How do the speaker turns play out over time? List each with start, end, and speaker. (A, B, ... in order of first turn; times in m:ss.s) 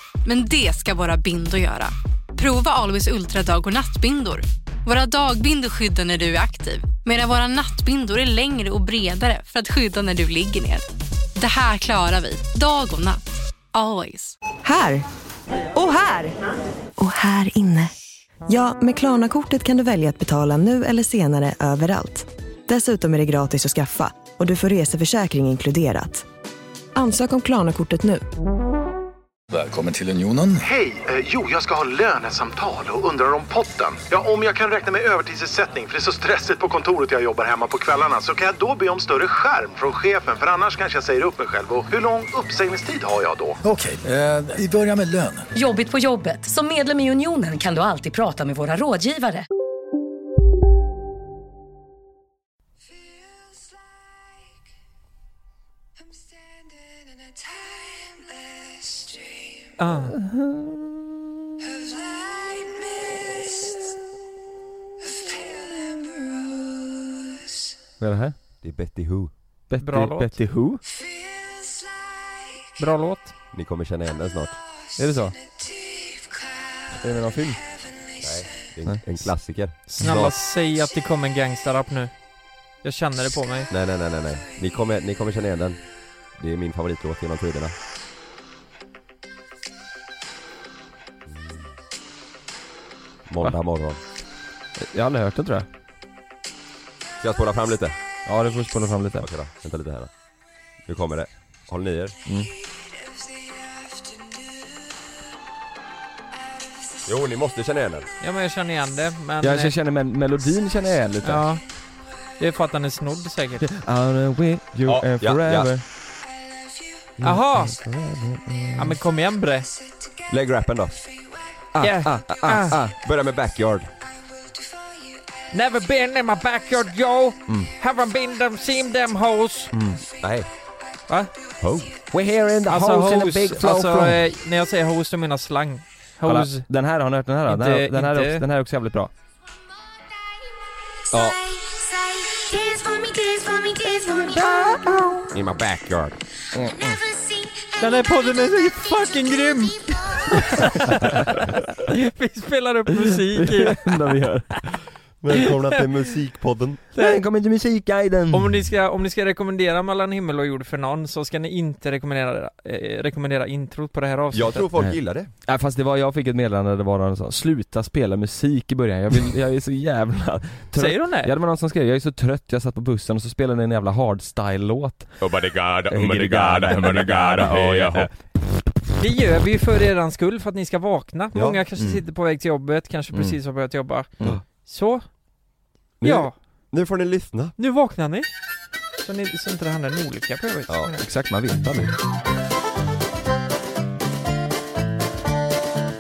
0:00.2-0:13.2 A
0:13.7-0:14.4 A
0:14.6-0:15.0 B
0:15.8-0:16.4 B
0:17.0-0:17.9 B
0:18.5-0:26.3 B
0:27.0-0:28.2 B
0:29.5-0:30.6 C
0:30.6-0:43.6 D
0:43.6-0:45.5 C
0:45.5-0:49.4 E
0:59.8-1:00.2 F
1:00.3-1:00.7 G
1:08.0-1:08.4 G
1:08.6-1:09.4 H
1:09.7-1:10.8 G
1:09.8-1:10.4 F
1:12.8-1:13.3 F
1:13.5-1:14.6 H
1:15.0-1:15.4 G
1:16.9-1:17.7 G
1:18.2-1:20.4 H
1:18.8-1:20.2 G
1:19.9-1:23.7 F
1:23.7-1:27.8 H
1:31.3-1:31.6 H
1:33.3-1:34.0 H
1:34.8-1:35.7 G
1:37.2-1:38.0 H
1:38.3-1:39.3 G
1:39.2-1:40.1 H
1:40.8-1:42.2 H
1:42.3-1:42.5 G
1:47.0-1:48.1 H
1:48.2-1:49.7 F
1:49.4-1:51.5 G
1:51.2-1:53.7 F
1:53.8-1:55.9 G
1:54.8-1:55.8 H
1:57.2-1:59.0 G
1:57.2-1:57.8 F
1:58.8-1:59.7 F
2:00.3-2:01.2 H
2:01.8-2:03.0 G
2:01.8-2:02.8 F
2:02.5-2:04.0 H
2:05.5-2:09.7 F
2:07.5-2:07.7 G
2:09.7-2:10.0 G
2:10.2-2:10.5 H
2:11.1-2:11.3 F
2:11.6-2:12.0 H
2:12.1-2:14.2 G
2:12.7-2:16.7 F
2:16.2-2:19.1 G
2:17.5-2:18.4 F
2:21.1-2:21.6 H
2:24.1-2:25.0 F
2:25.3-2:26.2 H
2:26.5-2:27.0 G
2:27.8-2:34.2 F
2:33.3-2:34.6 G
2:35.2-2:36.8 H
2:36.9-2:38.7 G
2:37.0-2:37.2 F
2:38.3-2:44.9 F
2:44.3-2:45.3 H
2:44.8-2:55.4 G
2:50.7-2:51.3 F
2:55.2-2:58.1 H
2:55.9-2:58.4 G
2:59.0-3:06.7 F
3:01.3-3:01.6 H
3:01.8-3:02.1 G
3:03.1-3:03.4 G
3:04.2-3:04.4 G
3:06.0-3:07.6 H
3:07.6-3:11.0 F
3:10.7-3:11.0 H
3:11.0-3:11.9 G